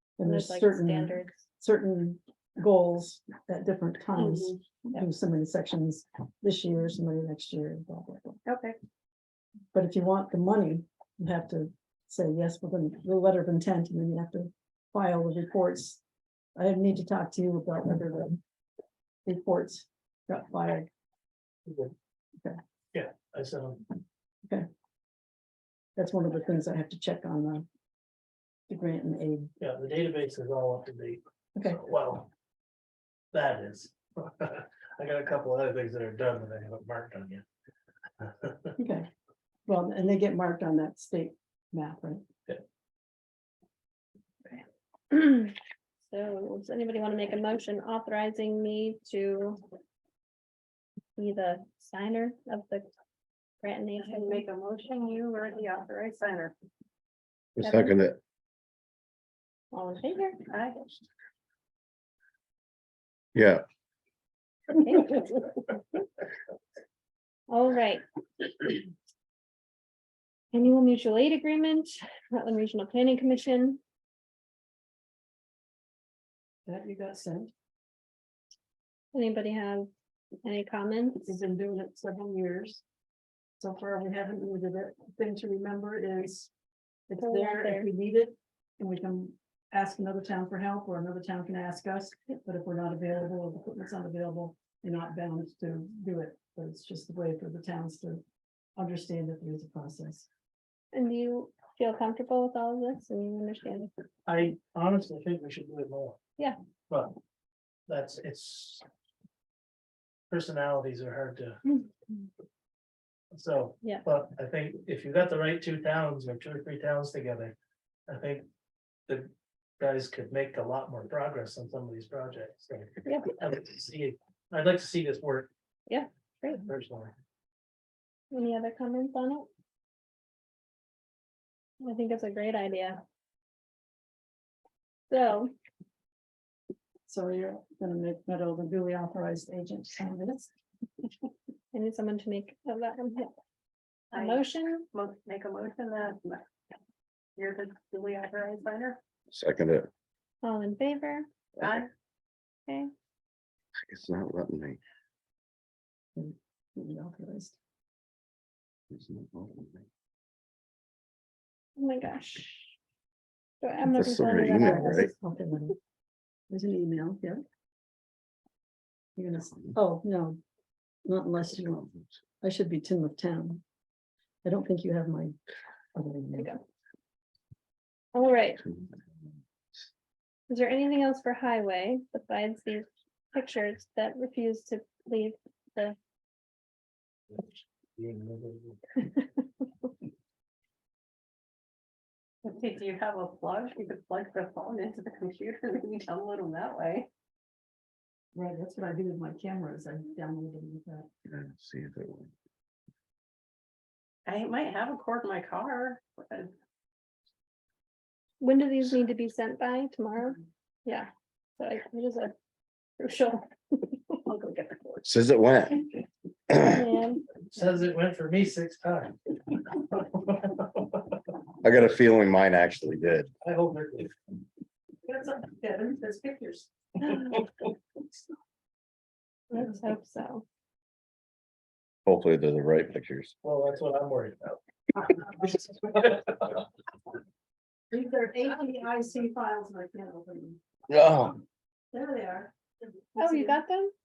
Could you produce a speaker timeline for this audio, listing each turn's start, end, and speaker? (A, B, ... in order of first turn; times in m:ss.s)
0:00.2-0:08.4 A
0:00.2-0:01.4 B
0:04.2-0:04.6 C
0:08.4-0:08.8 C
0:09.7-0:16.0 A
0:16.6-0:18.4 A
0:19.2-0:20.9 A
0:21.6-0:21.9 D
0:22.9-0:23.8 D
0:26.0-0:27.6 A
0:28.7-0:29.5 A
0:29.6-0:32.3 D
0:33.3-0:37.4 D
0:38.2-0:38.7 D
0:38.8-0:39.1 A
0:39.7-0:42.2 A
0:44.4-0:49.6 B
0:51.2-0:52.9 B
0:53.6-0:54.4 B
0:54.0-0:56.5 C
0:57.6-0:58.2 E
0:57.6-0:58.0 B
0:59.7-1:00.4 B
1:00.5-1:00.8 C
1:03.3-1:03.6 E
1:04.8-1:05.7 B
1:07.5-1:08.0 B
1:10.5-1:13.8 B
1:16.7-1:17.5 A
1:19.1-1:19.9 B
1:20.4-1:21.4 B
1:21.2-1:22.8 A
1:23.6-1:26.5 A
1:27.1-1:38.2 A
1:27.2-1:27.9 B
1:38.8-1:40.3 A
1:40.9-1:43.9 B
1:44.3-1:46.2 D
1:46.9-1:47.2 D
1:47.9-1:48.8 D
1:50.3-1:51.6 D
1:53.3-1:57.6 D
1:58.1-1:58.5 D
1:59.1-2:05.5 D
2:03.0-2:03.3 B
2:05.9-2:06.6 B
2:06.6-2:07.1 D
2:08.3-2:09.5 B
2:11.8-2:13.0 B
2:15.1-2:15.5 B
2:17.1-2:20.5 A
2:21.7-2:23.3 B
2:24.1-2:24.9 B
2:24.1-2:26.4 C
2:27.4-2:29.0 C
2:29.3-2:29.9 E
2:30.4-2:31.3 B
2:31.6-2:31.9 C
2:33.9-2:34.8 E
2:36.2-2:37.6 A
2:38.9-2:39.8 E
2:41.8-2:42.8 B
2:43.6-2:45.1 B
2:43.9-2:45.1 E
2:44.6-2:45.8 A
2:46.5-2:47.4 A
2:49.2-2:50.4 A
2:51.0-2:53.6 A
2:54.4-2:55.4 A
2:55.9-2:56.5 A
2:56.3-2:56.6 B
2:58.1-2:58.6 B
3:00.5-3:06.0 B
3:07.3-3:08.9 D
3:12.4-3:17.1 C
3:18.3-3:21.1 A
3:21.3-3:22.3 E
3:24.2-3:26.5 C
3:28.4-3:32.3 B
3:33.0-3:34.2 B
3:34.3-3:35.0 C
3:35.0-3:35.8 E
3:36.6-3:37.2 B
3:37.5-3:41.0 D
3:41.6-3:43.3 E
3:43.4-3:44.1 D
3:45.0-3:46.7 A
3:49.5-3:50.5 B
3:52.1-3:53.3 E
3:53.4-3:54.6 D
3:55.2-3:55.8 A
3:55.9-3:56.5 D
3:57.9-4:00.6 A
4:00.9-4:01.4 E
4:01.9-4:02.5 A
4:03.1-4:03.6 A
4:03.2-4:03.9 B